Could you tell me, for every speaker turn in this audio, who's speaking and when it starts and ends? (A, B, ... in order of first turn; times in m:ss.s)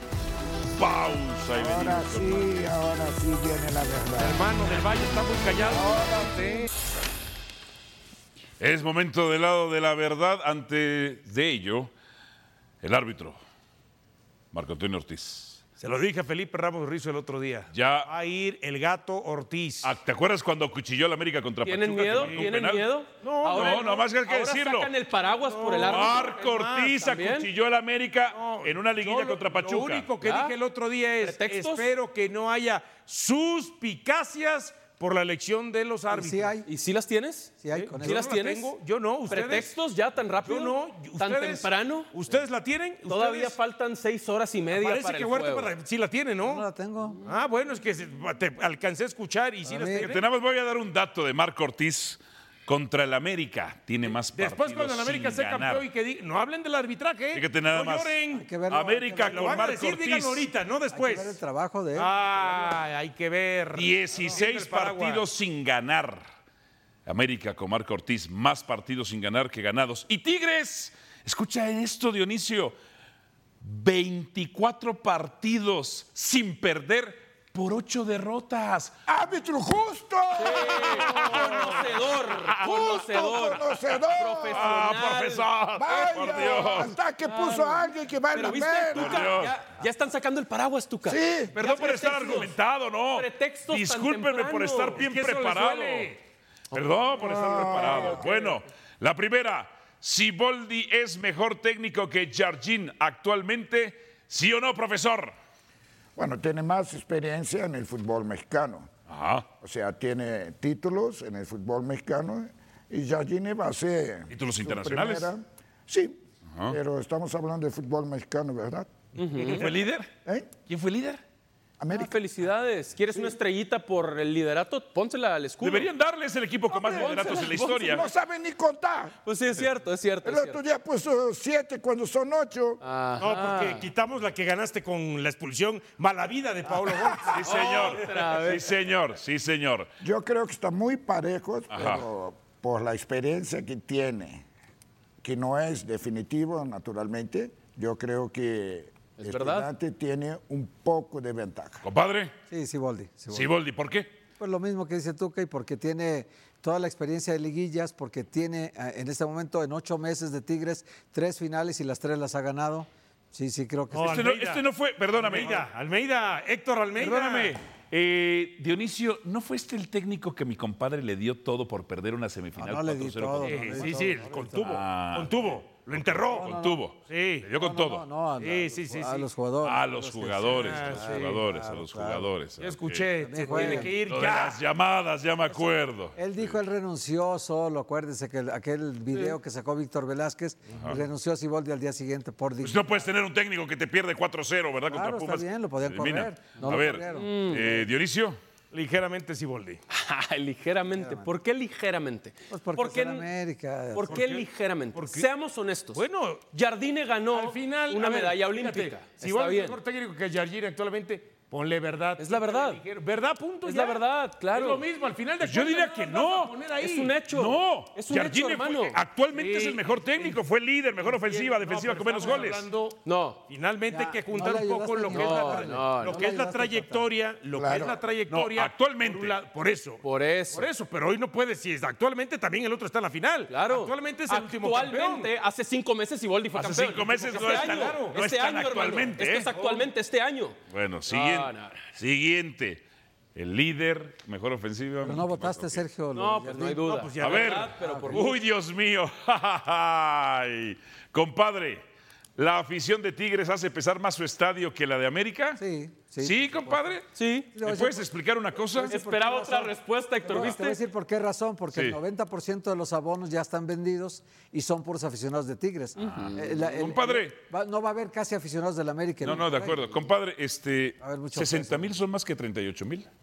0:00.7-0:02.5 A
0:01.6-0:04.5 B
0:04.2-0:06.7 C
0:05.7-0:06.6 B
0:08.6-0:11.9 A
0:12.8-0:13.4 A
0:14.5-0:15.6 A
0:15.8-0:19.9 C
0:17.7-0:18.1 A
0:19.8-0:22.8 A
0:21.6-0:26.4 D
0:22.2-0:22.5 C
0:23.2-0:24.0 C
0:23.5-0:24.9 A
0:25.3-0:27.0 C
0:25.7-0:30.1 A
0:27.0-0:27.5 D
0:28.3-0:36.6 C
0:30.2-0:30.6 D
0:31.2-0:31.9 D
0:36.1-0:36.7 E
0:36.6-0:38.7 D
0:37.6-0:38.3 E
0:37.7-0:39.7 C
0:39.3-0:42.1 D
0:40.4-0:43.6 C
0:43.1-0:45.7 D
0:44.7-0:46.6 C
0:46.4-0:47.2 E
0:47.2-0:50.2 C
0:49.6-0:50.1 E
0:49.9-0:55.9 A
0:54.1-0:58.4 C
0:57.3-1:00.4 A
0:58.3-0:59.7 E
0:59.3-1:01.4 C
1:00.9-1:02.7 E
1:01.9-1:05.2 C
1:03.7-1:06.2 A
1:07.0-1:12.8 A
1:13.6-1:18.9 A
1:19.1-1:21.9 B
1:20.4-1:26.4 D
1:20.7-1:21.8 A
1:22.6-1:24.7 B
1:24.5-1:26.9 A
1:25.8-1:29.3 B
1:27.2-1:32.5 D
1:28.9-1:29.6 A
1:31.0-1:31.5 B
1:31.5-1:36.2 A
1:33.1-1:35.0 D
1:35.0-1:36.2 C
1:36.7-1:45.3 A
1:37.2-1:38.3 B
1:46.2-1:48.9 B
1:49.1-1:49.5 A
1:49.6-1:58.9 B
1:54.3-1:55.3 A
1:56.5-1:56.8 A
1:59.2-1:59.7 D
1:59.5-2:00.1 A
2:00.2-2:00.5 B
2:00.6-2:01.2 A
2:01.8-2:02.2 B
2:01.9-2:05.9 D
2:05.6-2:08.0 A
2:06.7-2:09.1 B
2:06.9-2:08.0 D
2:09.2-2:10.6 D
2:10.2-2:12.8 B
2:12.8-2:13.9 D
2:13.2-2:18.0 C
2:17.2-2:19.9 A
2:17.4-2:18.7 D
2:20.0-2:24.4 B
2:21.7-2:22.0 A
2:25.2-2:31.8 B
2:29.2-2:29.7 D
2:31.8-2:32.3 A
2:32.5-2:33.5 E
2:33.3-2:34.1 A
2:34.4-2:44.3 E
2:43.9-2:47.6 C
2:44.0-2:45.7 A
2:47.0-2:54.0 A
2:52.6-2:54.7 E
2:53.4-2:56.5 C
2:54.5-2:58.0 A
2:56.3-2:56.8 E
2:57.0-2:57.5 C
2:57.6-3:02.3 E
2:58.4-2:59.3 C
2:59.6-3:06.5 A
3:00.4-3:01.4 C
3:02.6-3:04.6 C
3:03.2-3:04.0 E
3:06.1-3:13.1 E
3:12.6-3:18.4 A
3:14.9-3:17.9 E
3:17.1-3:17.7 D
3:18.7-3:19.8 C
3:19.9-3:23.3 D
3:21.0-3:21.3 E
3:22.5-3:24.3 E
3:24.0-3:29.8 D
3:24.1-3:25.3 C
3:25.9-3:26.5 C
3:27.3-3:37.1 C
3:32.2-3:32.8 D
3:33.6-3:34.8 D
3:35.4-3:36.6 A
3:36.8-3:39.0 D
3:37.3-3:42.7 A
3:39.3-3:40.4 C
3:41.0-3:55.3 C
3:43.0-3:43.4 D
3:43.9-3:47.1 E
3:45.1-3:46.2 D
3:47.5-3:48.0 B
3:48.3-3:49.4 A
3:50.0-3:50.7 D
3:53.5-4:01.8 D
3:56.5-3:59.5 A
3:57.1-3:58.2 C
3:59.5-3:59.9 C
4:00.7-4:02.8 A
4:03.3-4:05.8 A
4:05.0-4:06.9 E
4:06.1-4:08.4 D
4:06.8-4:07.8 C
4:07.2-4:11.8 A
4:07.8-4:08.3 E
4:12.4-4:15.6 A
4:15.6-4:16.9 E
4:16.2-4:18.9 A
4:17.1-4:17.5 D
4:17.5-4:18.1 E
4:18.7-4:29.9 E
4:18.9-4:20.8 D
4:21.7-4:22.0 A
4:26.0-4:27.4 A
4:26.0-4:26.3 D
4:29.2-4:33.1 A
4:31.0-4:31.9 E